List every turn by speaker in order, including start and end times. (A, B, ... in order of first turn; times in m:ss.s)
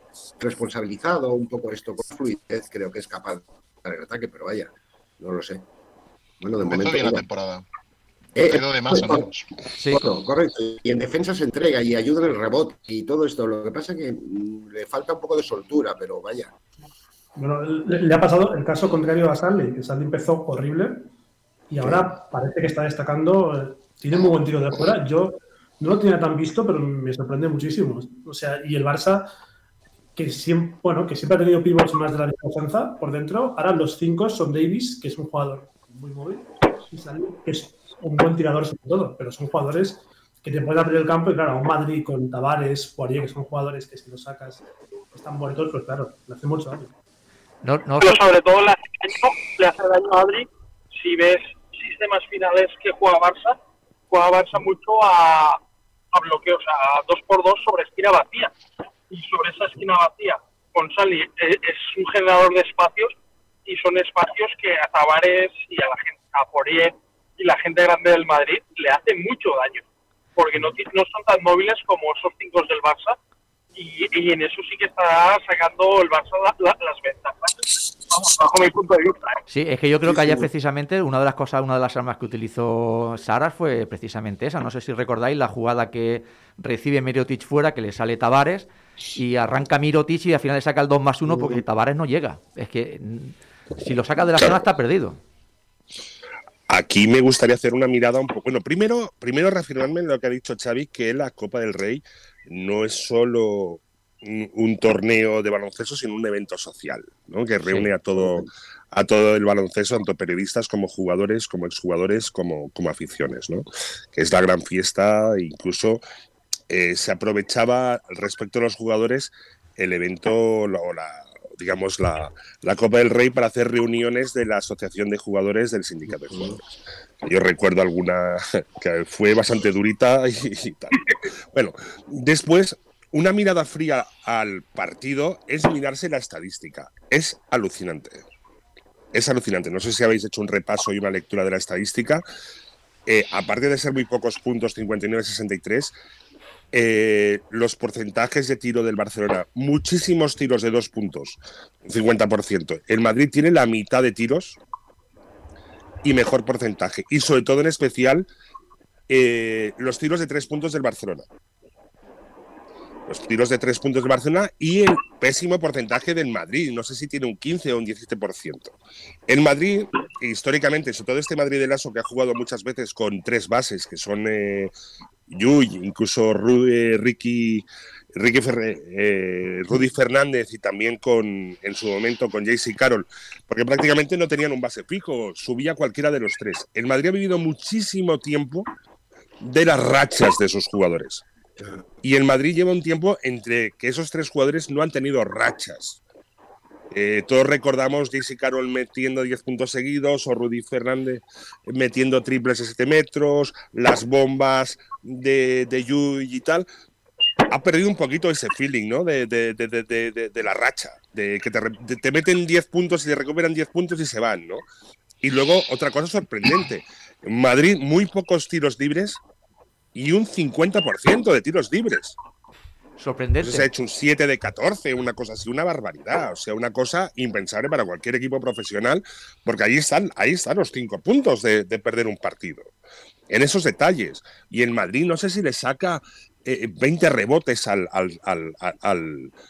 0:00.4-0:05.6 A
0:06.4-0:07.2 A
0:06.6-0:07.6 B
0:08.4-0:09.3 A
0:08.4-0:09.5 B
0:09.9-0:16.5 A
0:17.4-0:21.1 C
0:21.7-0:29.3 C
0:30.2-0:46.9 C
0:47.6-0:48.2 D
0:48.0-0:53.6 E
0:54.1-0:55.6 E
0:56.1-0:58.5 E
0:59.1-1:03.1 E
1:03.6-1:09.8 E
1:10.4-1:13.2 E
1:13.8-1:19.4 E
1:19.5-1:35.2 D
1:20.0-1:20.5 A
1:36.7-1:56.0 F
1:56.7-2:06.6 F
2:07.2-2:18.2 F
2:19.1-2:22.2 F
2:23.0-2:25.9 F
2:26.7-2:34.6 F
2:36.0-2:38.3 F
2:39.1-2:41.2 F
2:43.1-2:48.8 F
2:49.3-2:54.7 F
2:55.3-3:08.7 F
3:09.4-3:11.2 F
3:12.0-3:16.0 F
3:16.9-3:26.7 F
3:27.5-3:34.6 F
3:35.2-3:39.2 F
3:39.9-3:42.1 F
3:43.0-3:43.7 D
3:43.4-3:52.7 F
3:53.3-3:59.3 F